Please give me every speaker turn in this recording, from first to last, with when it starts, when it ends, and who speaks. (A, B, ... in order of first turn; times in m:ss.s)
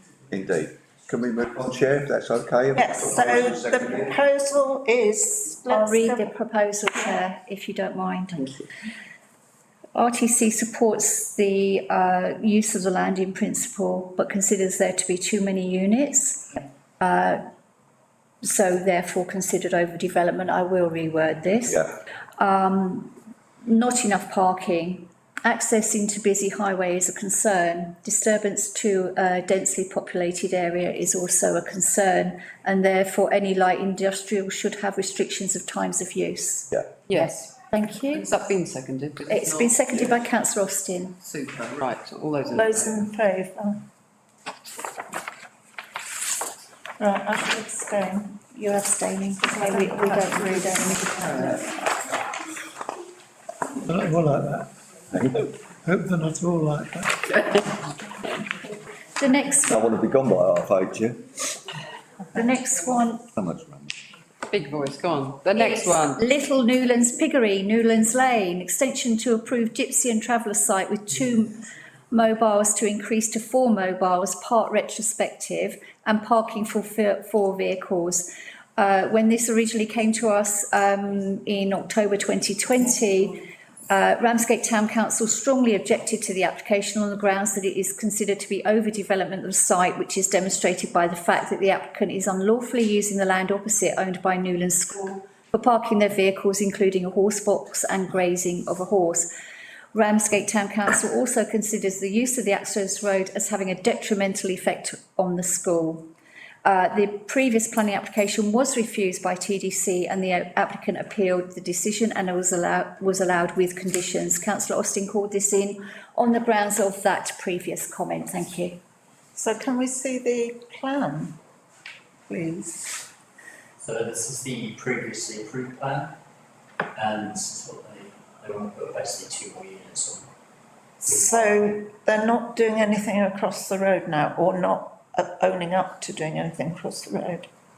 0:00.3-0:04.1 A
0:02.8-0:06.3 B
0:05.6-0:08.6 C
0:09.9-0:17.4 C
0:18.4-0:21.8 C
0:21.6-0:21.9 A
0:22.4-0:38.4 C
0:37.1-0:37.5 D
0:38.1-0:40.2 D
0:39.3-0:41.2 C
0:41.2-0:42.9 D
0:42.5-0:43.8 B
0:47.0-0:48.4 B
0:48.5-0:51.8 C
0:49.6-0:51.6 B
0:53.8-0:54.7 E
0:55.1-0:55.4 A
0:55.3-0:57.7 E
0:59.2-0:59.8 C
0:59.7-1:01.2 A
1:02.3-1:03.3 C
1:03.4-1:03.9 A
1:04.5-1:06.2 D
1:05.5-1:39.3 C
1:39.9-1:46.1 C
1:46.6-1:58.8 C
1:59.3-2:01.4 B
2:02.3-2:03.0 B
2:03.8-2:06.1 F
2:06.9-2:10.3 F
2:11.0-2:17.5 B